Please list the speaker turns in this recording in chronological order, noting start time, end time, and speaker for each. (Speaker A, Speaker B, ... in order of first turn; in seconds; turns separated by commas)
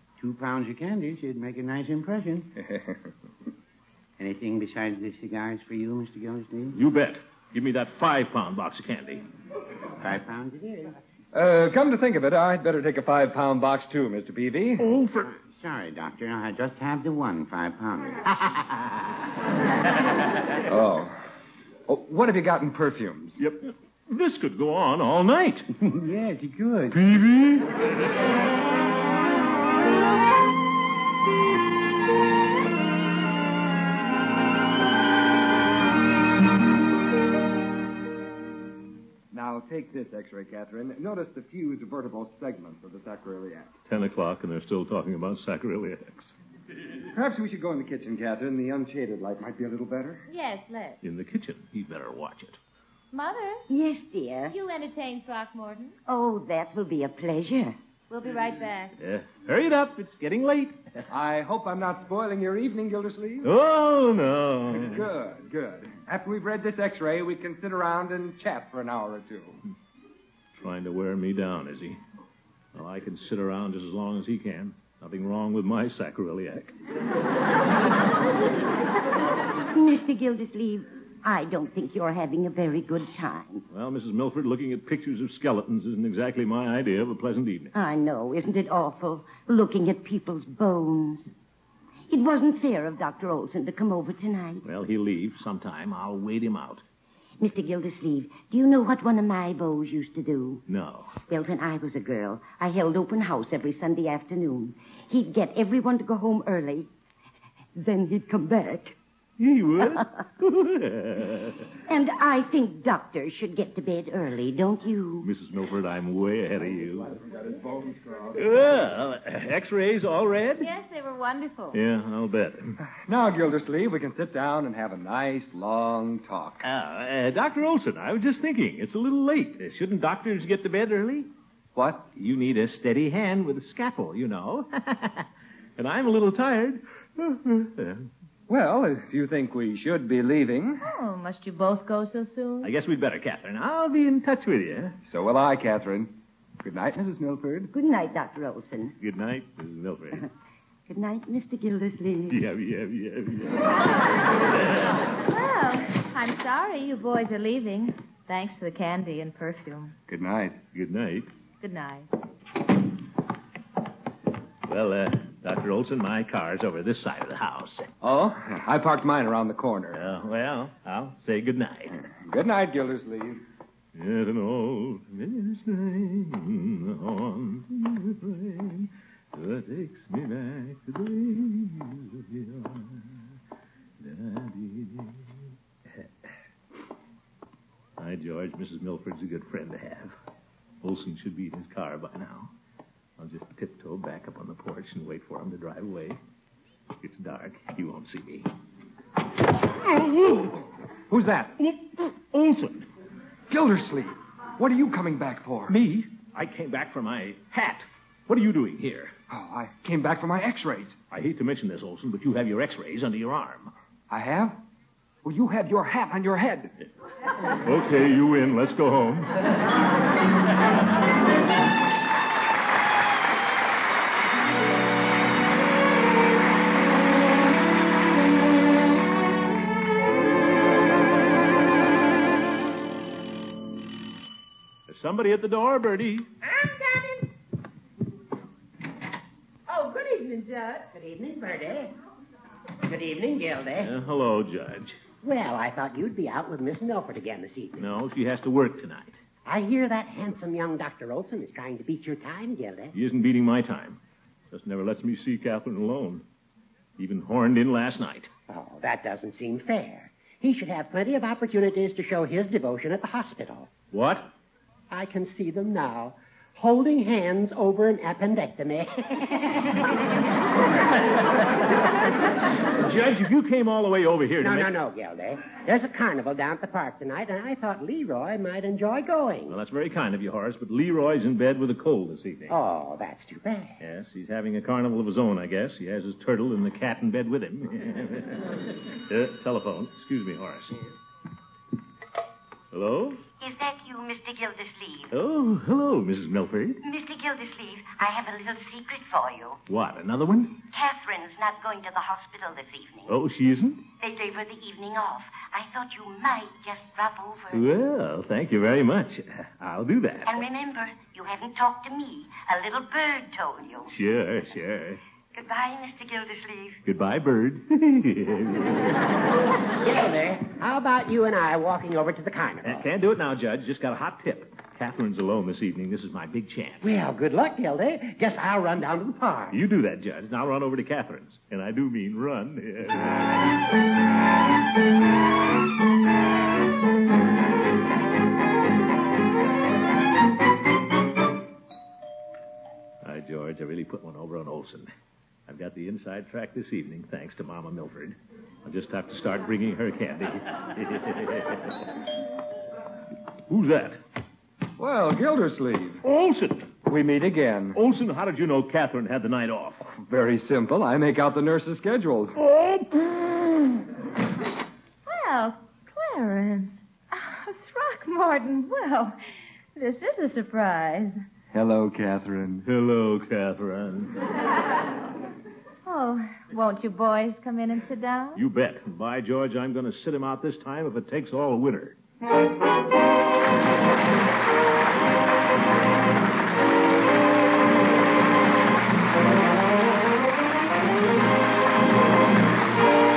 Speaker A: 0.2-2.5, Speaker B: 2.6-3.0, Speaker A: 4.2-6.8, Speaker C: 6.7-9.2, Speaker A: 10.0-10.9, Speaker B: 11.3-14.9, Speaker C: 14.8-15.3, Speaker A: 15.2-18.6, Speaker B: 20.7-21.1, Speaker B: 21.9-23.4, Speaker C: 23.4-25.7, Speaker A: 25.8-26.9, Speaker C: 26.9-27.7, Speaker B: 39.3-43.7, Speaker C: 43.9-46.3, Speaker B: 47.1-50.2, Speaker D: 50.3-51.0, Speaker C: 51.0-52.6, Speaker D: 53.1-53.6, Speaker E: 53.7-54.5, Speaker D: 54.5-55.9, Speaker E: 56.0-57.8, Speaker D: 58.1-58.9, Speaker C: 59.0-60.8, Speaker B: 61.1-63.5, Speaker C: 63.4-65.0, Speaker B: 64.7-69.6, Speaker C: 70.6-72.0, Speaker C: 72.7-76.7, Speaker E: 79.7-83.6, Speaker C: 83.7-87.7, Speaker E: 87.7-91.3, Speaker E: 92.1-94.6, Speaker C: 94.6-96.8, Speaker E: 97.4-100.6, Speaker C: 100.7-101.1, Speaker E: 101.3-106.9, Speaker E: 107.7-108.9, Speaker C: 109.4-111.6, Speaker E: 111.9-115.3, Speaker C: 115.2-117.1, Speaker B: 117.1-118.6, Speaker C: 118.3-120.7, Speaker D: 120.6-121.8, Speaker C: 121.7-122.8, Speaker B: 122.8-126.6, Speaker C: 126.6-131.3, Speaker B: 131.7-132.1, Speaker C: 132.1-135.2, Speaker C: 135.8-138.1, Speaker B: 138.5-140.8, Speaker D: 140.8-142.7, Speaker C: 142.6-145.0, Speaker B: 145.1-147.7, Speaker E: 147.7-148.9, Speaker C: 149.0-150.2, Speaker E: 150.9-152.4, Speaker C: 152.3-153.8, Speaker C: 154.5-154.9, Speaker D: 155.2-159.9, Speaker B: 160.1-160.6, Speaker C: 160.7-161.3, Speaker D: 161.6-162.1, Speaker C: 164.7-167.9, Speaker B: 168.0-170.0, Speaker C: 169.9-172.0, Speaker B: 172.2-173.4, Speaker C: 173.9-183.1, Speaker C: 184.0-185.2, Speaker C: 188.0-190.1, Speaker C: 190.8-192.5, Speaker C: 193.2-196.2, Speaker C: 197.0-198.5, Speaker B: 201.1-201.6, Speaker C: 201.6-202.9, Speaker B: 203.5-205.8, Speaker C: 205.7-209.1, Speaker B: 209.3-211.0, Speaker C: 211.1-213.7, Speaker B: 214.1-214.6, Speaker B: 215.2-216.7, Speaker C: 217.6-219.3, Speaker C: 234.9-236.3, Speaker F: 236.4-237.2, Speaker F: 239.7-241.9, Speaker F: 242.8-243.9, Speaker C: 243.8-245.0, Speaker F: 245.2-247.8, Speaker C: 247.8-249.2, Speaker F: 249.4-252.9, Speaker C: 252.9-254.0, Speaker C: 254.5-256.2, Speaker C: 257.0-258.3, Speaker F: 258.5-263.7, Speaker C: 263.9-264.3, Speaker F: 264.9-269.6, Speaker C: 272.7-274.7, Speaker F: 274.4-279.6, Speaker C: 279.5-282.6, Speaker F: 282.5-283.8, Speaker C: 283.8-290.8, Speaker C: 292.7-293.2, Speaker E: 293.4-295.1, Speaker C: 295.1-296.8, Speaker E: 296.8-299.6, Speaker C: 299.7-300.6, Speaker E: 300.7-303.1, Speaker C: 303.1-303.8, Speaker E: 304.0-307.7, Speaker C: 307.5-310.4, Speaker E: 310.2-313.9, Speaker C: 313.9-315.0, Speaker E: 315.3-316.8, Speaker C: 316.8-318.9, Speaker F: 319.8-322.9, Speaker C: 322.6-326.9, Speaker F: 326.8-329.6, Speaker C: 329.5-333.2, Speaker C: 343.0-344.9, Speaker C: 345.5-351.8, Speaker C: 353.5-354.0, Speaker B: 354.8-356.0, Speaker C: 356.0-356.7, Speaker B: 356.9-357.8, Speaker C: 357.7-359.8, Speaker B: 359.9-362.4, Speaker C: 362.4-363.1, Speaker D: 365.1-369.1, Speaker D: 369.7-371.2, Speaker B: 371.5-372.6, Speaker C: 372.6-374.1, Speaker D: 375.8-378.4, Speaker C: 378.3-382.0